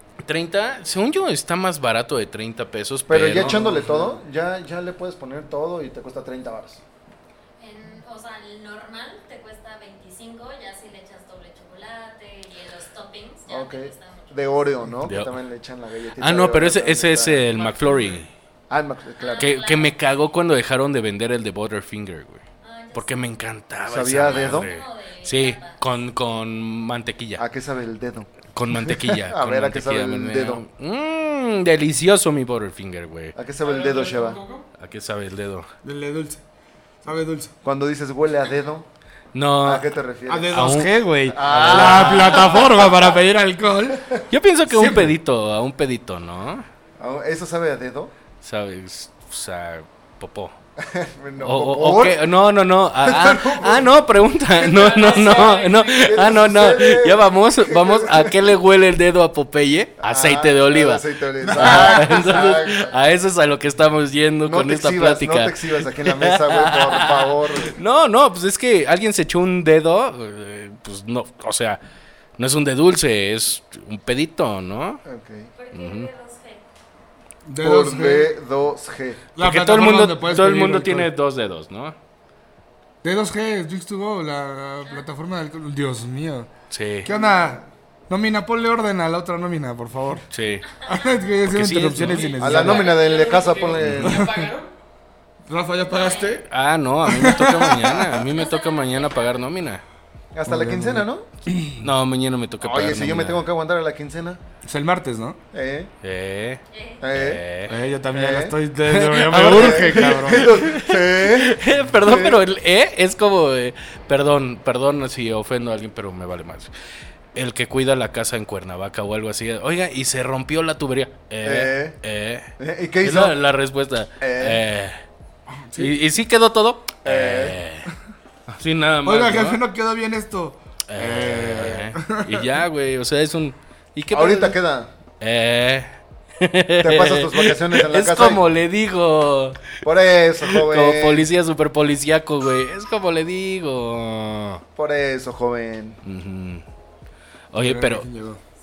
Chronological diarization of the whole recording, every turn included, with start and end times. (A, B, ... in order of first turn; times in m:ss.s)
0:00.2-0:03.6 A
0:03.1-0:06.8 B
0:03.3-0:04.2 C
0:07.6-0:14.7 D
0:13.5-0:17.5 B
0:15.0-0:15.4 A
0:16.2-0:18.3 A
0:17.6-0:18.2 D
0:18.7-0:19.5 B
0:19.2-0:20.0 D
0:19.4-0:27.4 A
0:22.6-0:23.4 D
0:23.9-0:24.7 B
0:24.2-0:25.8 D
0:27.4-0:30.6 B
0:28.5-0:33.4 A
0:33.4-0:34.4 B
0:33.6-0:34.7 E
0:34.8-0:35.7 A
0:35.8-0:36.4 C
0:37.0-0:37.5 C
0:37.6-0:38.9 B
0:39.3-0:39.9 A
0:39.6-0:40.6 B
0:40.3-0:45.1 C
0:40.5-0:42.7 A
0:41.3-0:43.0 B
0:44.3-0:46.7 A
0:47.0-0:48.1 B
0:48.4-0:50.6 A
0:50.8-0:52.3 B
0:51.4-1:11.8 A
0:53.0-0:54.0 B
0:54.6-0:56.2 E
0:54.9-0:58.6 B
1:00.0-1:02.9 B
1:01.4-1:02.2 C
1:04.4-1:07.8 B
1:12.4-1:15.0 A
1:15.0-1:15.5 B
1:15.6-1:16.6 D
1:15.7-1:16.1 A
1:17.5-1:18.3 C
1:17.6-1:19.2 B
1:19.4-1:21.1 C
1:19.4-1:22.0 A
1:23.0-1:26.5 C
1:26.7-1:27.1 A
1:27.0-1:30.3 C
1:30.3-1:30.7 A
1:30.8-1:31.2 D
1:30.8-1:33.0 C
1:31.5-1:32.9 A
1:32.0-1:34.7 E
1:32.4-1:34.4 B
1:33.9-1:34.4 C
1:35.5-1:36.5 C
1:35.9-1:36.4 D
1:36.5-1:39.8 A
1:37.1-1:38.2 C
1:38.2-1:39.4 D
1:40.3-1:41.3 B
1:40.5-1:41.8 C
1:41.8-1:43.4 A
1:42.6-1:44.4 B
1:44.6-1:45.4 C
1:45.5-1:45.9 B
1:46.0-1:47.7 A
1:46.7-1:47.1 D
1:47.0-1:47.4 B
1:47.7-1:50.6 C
1:48.1-1:48.6 B
1:48.9-1:56.7 A
1:49.4-1:52.4 B
1:57.4-2:02.5 A
2:01.4-2:02.0 B
2:02.6-2:03.4 B
2:03.0-2:05.0 A
2:04.2-2:04.6 B
2:05.6-2:06.0 C
2:05.8-2:07.9 A
2:07.0-2:07.6 B
2:08.5-2:09.6 A
2:09.0-2:12.5 C
2:10.9-2:14.6 A
2:14.1-2:14.9 B
2:15.2-2:19.8 A
2:16.8-2:18.4 B
2:19.8-2:21.3 B
2:20.4-2:24.6 A
2:24.8-2:26.0 B
2:26.0-2:26.6 A
2:27.5-2:28.1 A
2:27.6-2:28.4 C